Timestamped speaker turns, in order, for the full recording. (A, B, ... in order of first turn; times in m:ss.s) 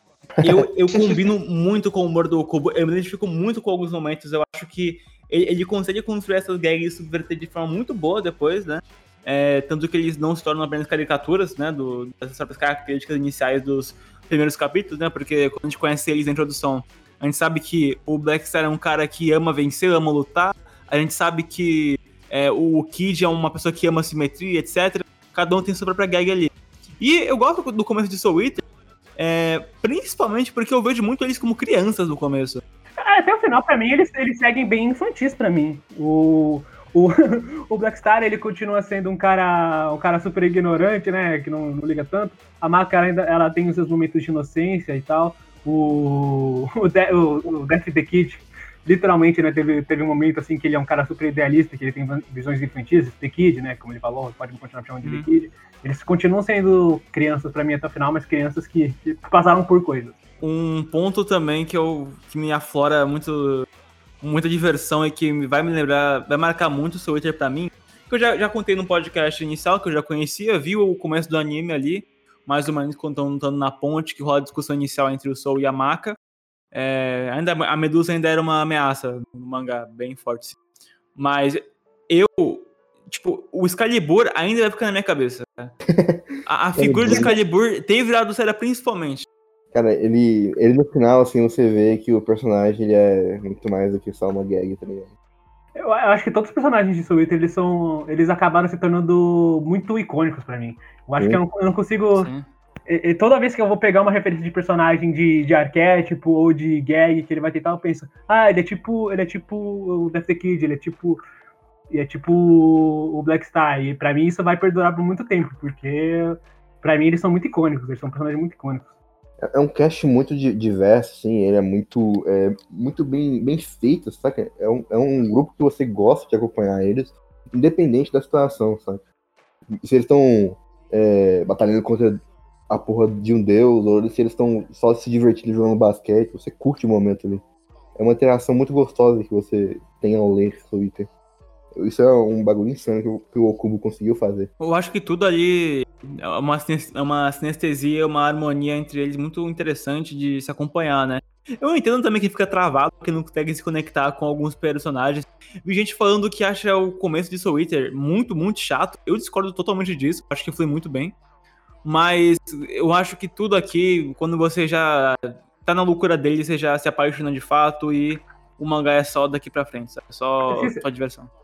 0:00.4-0:28.6 A
0:29.2-0:32.6 A
0:33.0-1:00.2 B
0:55.0-0:55.3 A
1:00.4-1:03.7 A
1:04.2-1:16.2 A
1:16.7-1:20.6 A
1:21.2-1:25.7 A
1:25.9-1:26.2 C
1:26.4-1:29.3 A
1:26.8-1:27.3 C
1:29.7-1:35.1 C
1:35.8-1:42.3 B
1:42.2-1:42.5 A
1:42.9-1:51.2 B
1:51.9-1:58.9 B
1:59.4-2:09.0 C
2:09.7-2:17.4 C
2:18.0-2:21.1 C
2:21.8-2:24.5 C
2:24.6-2:41.2 A
2:41.8-2:51.3 A
2:50.5-2:50.8 B